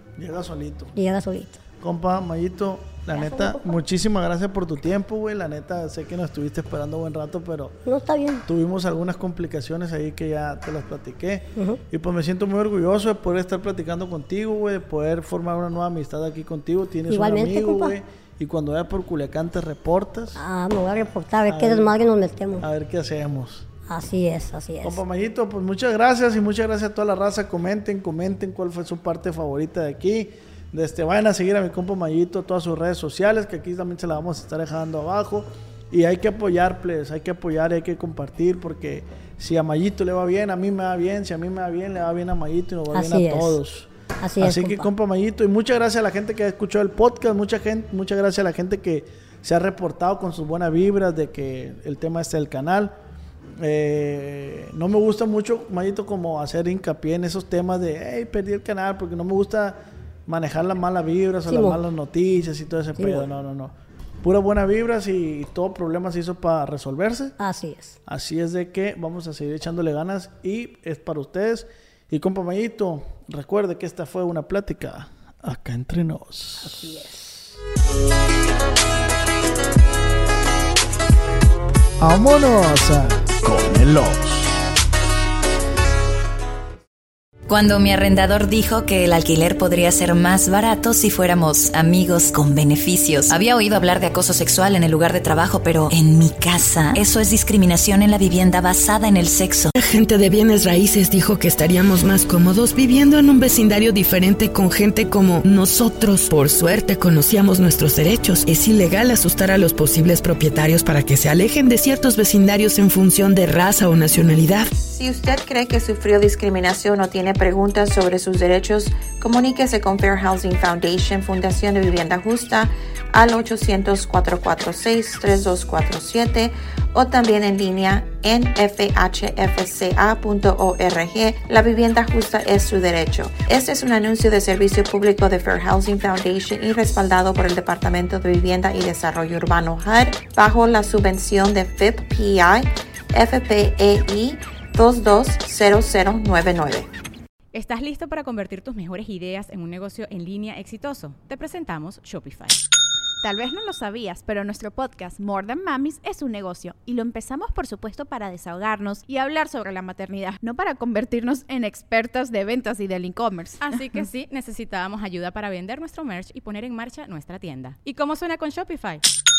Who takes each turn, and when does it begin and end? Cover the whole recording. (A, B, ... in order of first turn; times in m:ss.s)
0:00.2-0:00.9 A
0:00.9-0:01.6 B
0:01.8-0:07.8 A
0:03.1-0:03.7 B
0:07.8-0:08.4 B
0:08.4-0:20.4 A
0:11.5-0:11.8 B
0:17.1-0:18.0 B
0:20.3-0:22.6 B
0:21.5-0:22.0 A
0:22.6-0:23.7 A
0:23.9-0:25.0 B
0:24.8-0:53.0 A
0:42.9-0:43.6 B
0:44.2-0:44.9 B
0:53.6-1:07.4 A
1:01.5-1:01.8 B
1:03.0-1:03.2 B
1:07.4-1:08.0 B
1:08.0-1:16.9 A
1:16.6-1:17.6 B
1:22.0-1:24.6 A
1:27.5-1:39.7 C
1:39.7-1:54.7 D
1:54.7-2:26.9 E
2:27.5-2:32.6 F
2:33.2-2:44.0 G
2:43.6-2:49.0 F